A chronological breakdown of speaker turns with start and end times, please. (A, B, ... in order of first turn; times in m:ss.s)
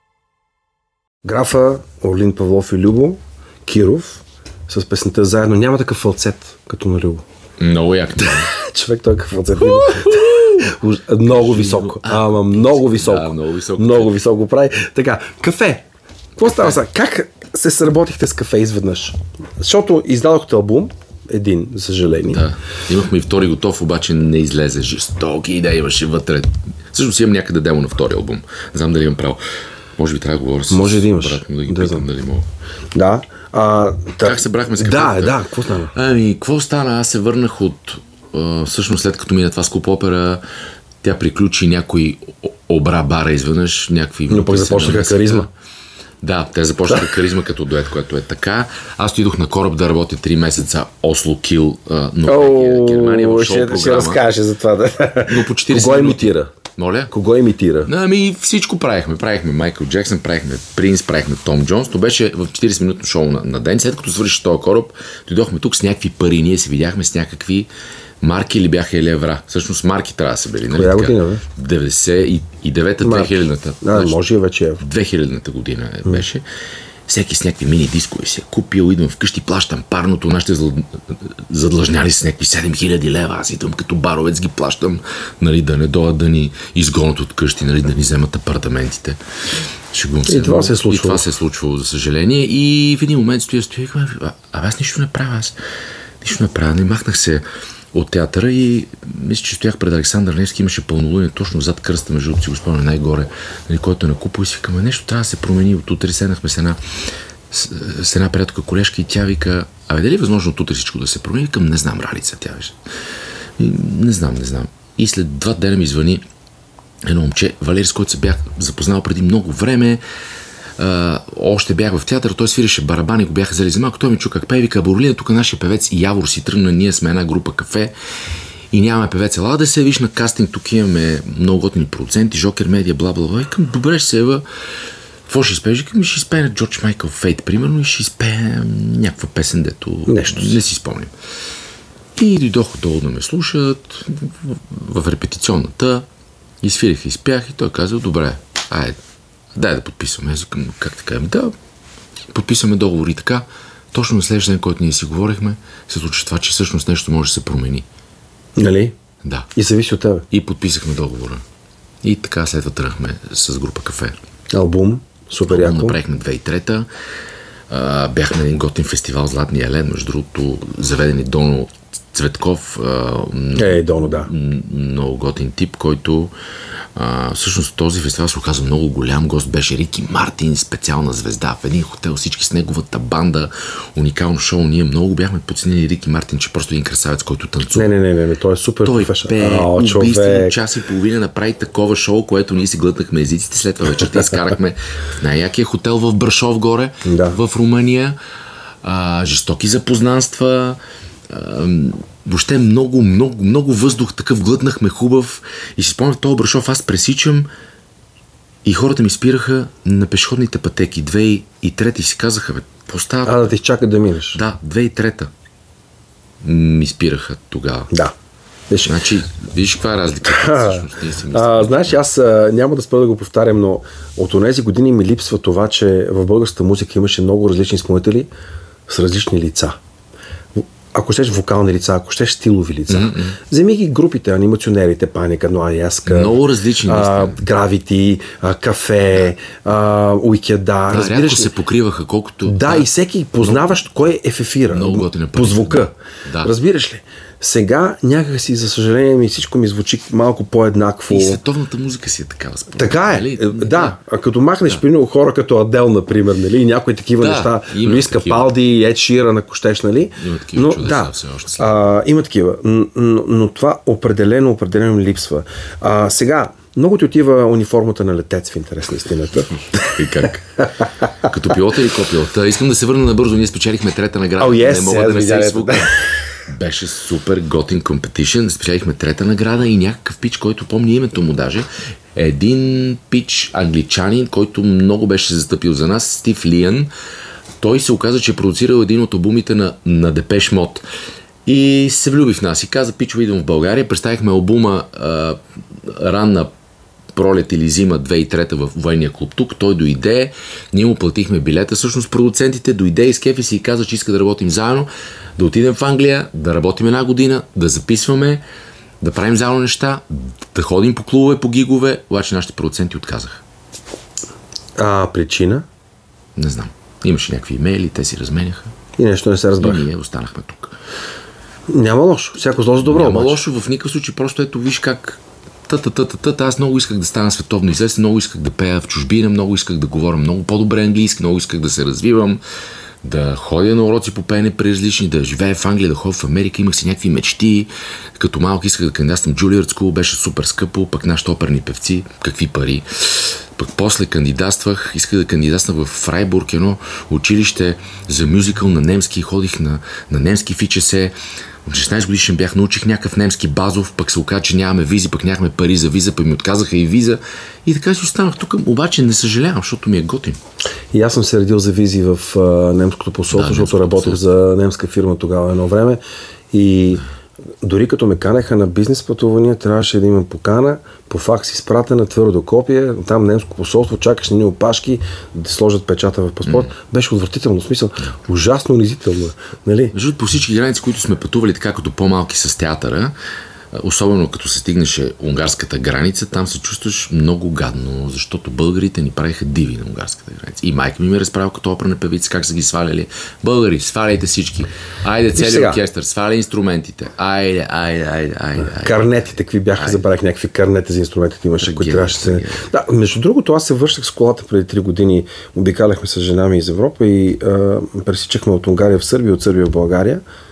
0:01.2-0:07.2 A
0:07.6-0:08.5 B
0:08.2-0:15.8 A
0:09.6-0:10.6 B
0:11.3-0:14.1 B
0:16.4-0:22.4 A
0:22.3-0:29.4 B
0:30.0-0:32.5 B
0:30.7-0:32.1 A
0:33.0-0:35.9 A
0:34.2-0:35.4 B
0:35.9-0:40.4 B
0:41.0-0:45.5 B
0:44.3-0:45.5 A
0:46.2-0:54.2 B
0:52.3-0:56.5 A
0:55.3-0:57.1 B
0:57.1-0:57.9 A
0:57.9-1:07.7 B
1:08.2-1:14.2 B
1:10.7-1:11.4 A
1:13.0-1:14.8 A
1:14.8-1:16.4 B
1:17.1-1:29.2 B
1:29.9-1:35.6 B
1:30.3-1:31.3 A
1:36.2-1:46.8 B
1:47.5-1:52.8 B
1:53.6-1:56.2 B
1:57.1-2:00.0 B
2:00.8-2:07.9 B
2:08.7-2:14.4 B
2:15.3-2:21.1 B
2:20.1-2:20.6 A
2:22.2-2:26.1 B
2:26.6-2:29.0 B
2:29.6-2:31.5 B
2:32.3-2:37.8 B
2:38.6-2:39.0 A
2:39.2-2:39.5 B
2:39.6-2:40.3 A
2:40.3-2:41.4 B
2:42.0-2:44.2 B
2:44.5-2:46.0 A
2:45.5-2:46.9 B
2:47.7-2:56.3 B
2:53.6-2:54.3 A
2:57.0-3:07.9 B
3:07.7-3:10.6 A
3:08.8-3:18.2 B
3:17.0-3:17.4 A
3:18.8-3:27.5 B
3:28.6-3:33.5 B
3:33.2-3:34.4 A
3:34.3-3:35.3 B
3:36.4-3:37.9 B
3:38.7-3:39.0 A
3:38.8-3:42.0 B
3:40.2-3:48.3 A
3:48.9-3:49.8 A
3:50.6-4:01.5 A
3:52.9-3:53.4 B
3:56.1-3:57.4 B
4:00.9-4:02.9 B
4:02.5-4:05.9 A
4:04.7-4:06.5 B
4:06.4-4:11.4 A
4:11.1-4:14.0 B
4:12.8-4:29.9 A
4:17.2-4:18.5 B
4:20.2-4:21.8 B
4:29.9-4:30.6 B
4:31.2-4:36.0 B
4:34.4-4:36.2 A
4:36.5-4:46.9 B
4:47.6-4:50.8 B
4:51.5-4:56.5 B
4:57.2-5:08.4 B
5:09.0-5:13.4 B
5:14.8-5:15.6 A
5:16.4-5:18.7 B
5:19.0-5:19.8 A
5:19.6-5:20.7 B
5:21.7-5:23.4 A
5:22.8-5:32.4 B
5:33.0-5:51.1 B
5:51.7-6:00.4 B
6:00.9-6:06.0 A
6:03.3-6:04.2 B
6:06.5-6:07.0 A
6:07.6-6:20.0 A
6:16.4-6:16.7 B
6:19.9-6:23.2 B
6:23.7-6:40.0 B
6:35.3-6:35.8 A
6:38.6-6:50.2 A
6:41.6-6:42.6 B